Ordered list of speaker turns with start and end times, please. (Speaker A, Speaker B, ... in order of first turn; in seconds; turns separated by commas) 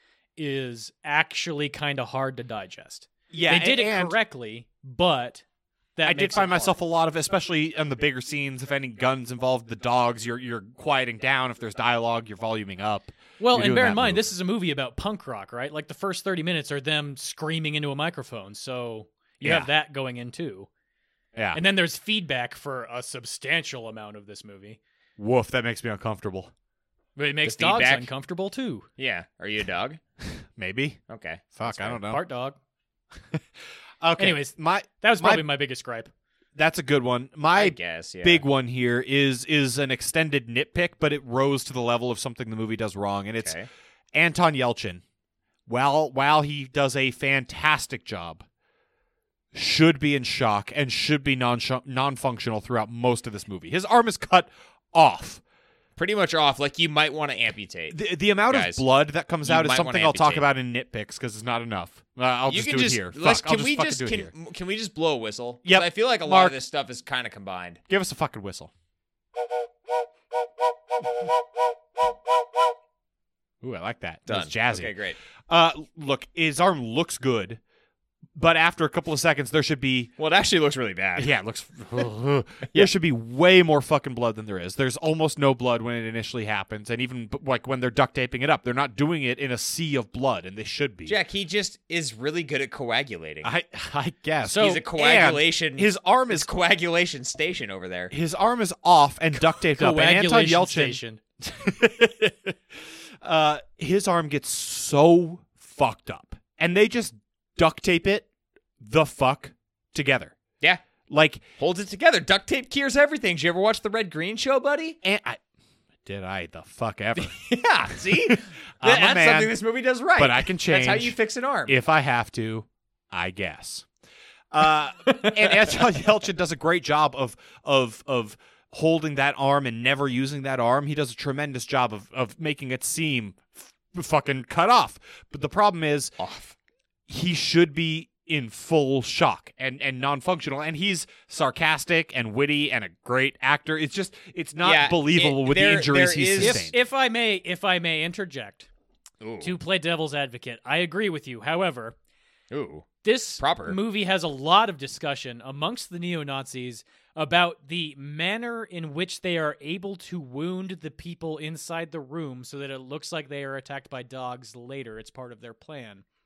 Speaker A: 0.4-5.4, Speaker B: 3.3-4.2, Speaker A: 6.0-6.7, Speaker B: 6.0-14.3, Speaker A: 13.4-20.7, Speaker B: 19.4-19.7, Speaker B: 21.3-21.6, Speaker A: 21.5-24.8, Speaker B: 25.2-26.5, Speaker A: 27.2-28.9, Speaker C: 27.4-28.1, Speaker C: 29.0-30.0, Speaker B: 30.4-31.0, Speaker C: 31.1-31.9, Speaker B: 31.5-32.2, Speaker A: 31.9-32.6, Speaker B: 34.0-35.4, Speaker A: 34.2-36.1, Speaker B: 36.5-43.5, Speaker C: 37.5-38.4, Speaker C: 43.4-43.7, Speaker B: 44.1-45.0, Speaker B: 45.7-48.4, Speaker B: 49.5-55.4, Speaker C: 56.0-58.8, Speaker B: 57.9-64.3, Speaker C: 59.4-60.5, Speaker C: 62.5-67.8, Speaker B: 65.7-66.5, Speaker B: 67.9-68.7, Speaker B: 73.6-74.9, Speaker C: 74.3-75.2, Speaker B: 75.5-77.6, Speaker B: 78.3-80.1, Speaker C: 80.2-81.3, Speaker B: 81.2-91.2, Speaker C: 91.0-93.5, Speaker B: 93.4-96.5, Speaker A: 94.5-94.8, Speaker C: 94.5-98.1, Speaker B: 98.1-108.3, Speaker A: 99.6-101.2, Speaker B: 108.8-110.3, Speaker B: 111.1-111.4, Speaker C: 111.6-115.0, Speaker B: 115.0-115.4, Speaker B: 116.0-117.5, Speaker C: 117.2-121.7, Speaker B: 118.2-119.5, Speaker B: 120.2-123.9, Speaker B: 124.5-136.1, Speaker C: 136.2-136.5, Speaker B: 137.1-146.8, Speaker C: 144.6-146.6, Speaker A: 146.4-148.7, Speaker C: 149.2-149.5, Speaker A: 149.4-151.9, Speaker C: 152.5-153.8, Speaker A: 153.0-166.0